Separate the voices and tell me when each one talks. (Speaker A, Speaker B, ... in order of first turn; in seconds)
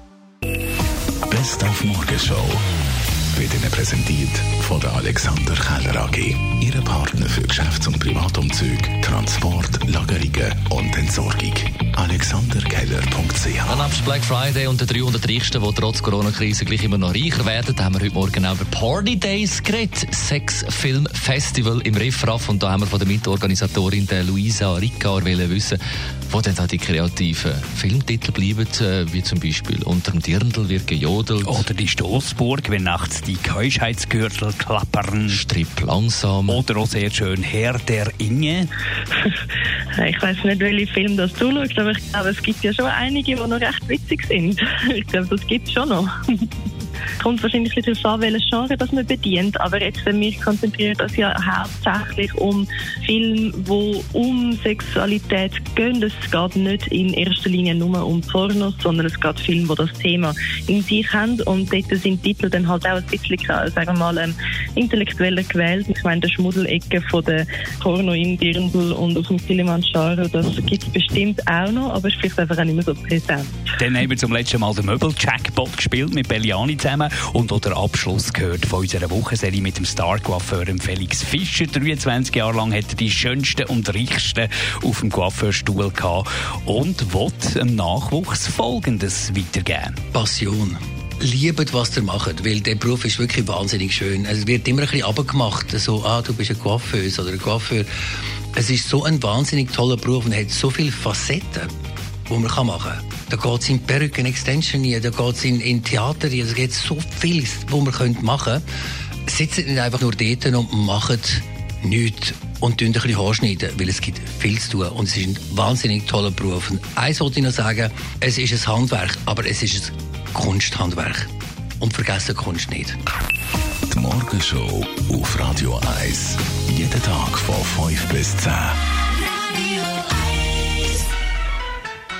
Speaker A: 1.3-2.6, 3.3-13.9, 123.9-128.8
Speaker B: 13.7-31.7, 35.3-36.6
Speaker C: 31.4-35.4, 36.5-38.7, 73.8-90.0
Speaker D: 40.0-46.1, 47.2-73.6
Speaker E: 90.1-97.9, 98.5-101.7, 102.3-108.6, 109.2-121.3, 121.8-123.0